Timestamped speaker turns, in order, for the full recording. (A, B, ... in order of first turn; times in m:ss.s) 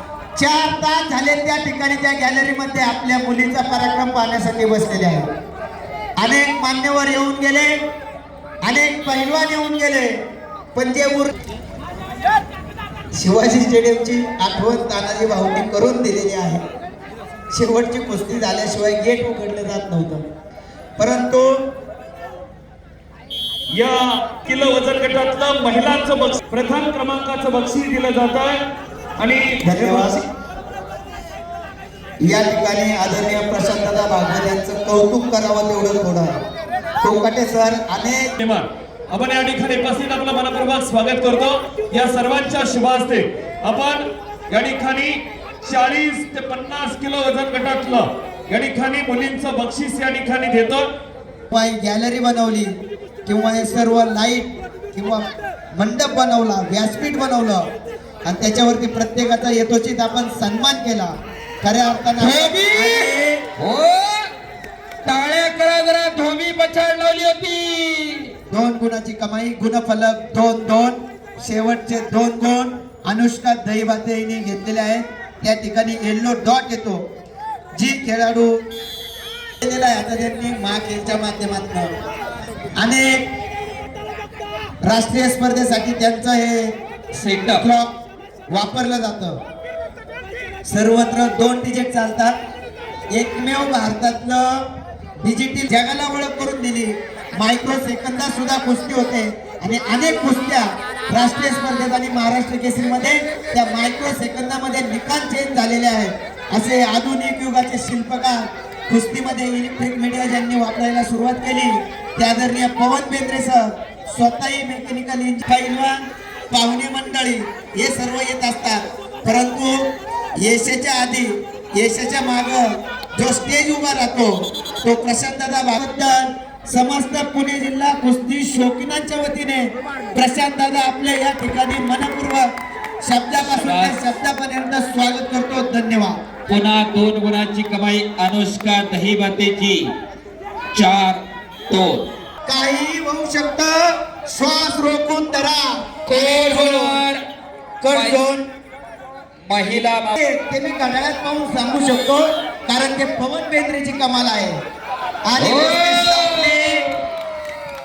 0:00.4-0:05.3 A
0:06.2-0:07.8 A
0:08.6-0:10.2 A
0:10.8-0:11.3 A
0:13.1-0:16.6 A
0:17.5-0:20.3 A
0:21.0-0:21.6 A
0:23.7-0:28.6 B
0:29.2-0:30.2 B
0:29.6-0:30.3 A
0:32.2-0:36.4 A
0:37.0-0:38.3 A
0:38.4-0:50.9 B
0:51.5-0:57.7 A
0:58.2-1:03.5 A
1:02.2-1:04.3 C
1:05.0-1:08.3 C
1:08.5-1:17.0 A
1:17.7-1:18.6 A
1:19.6-1:21.9 A
1:22.8-1:23.2 A
1:24.8-1:26.7 A
1:27.1-1:27.6 C
1:27.6-1:27.9 A
1:28.5-1:29.4 A
1:30.7-1:32.4 A
1:33.1-1:34.6 A
1:35.2-2:12.5 A
2:13.0-2:16.2 A
2:13.4-2:14.0 C
2:16.5-2:19.9 C
2:20.7-2:22.1 C
2:22.5-2:27.0 A
2:26.1-2:27.2 C
2:27.8-2:28.5 A
2:27.9-2:28.2 C
2:29.5-2:30.2 C
2:30.2-2:34.6 A
2:35.2-2:37.0 A
2:35.4-2:37.0 C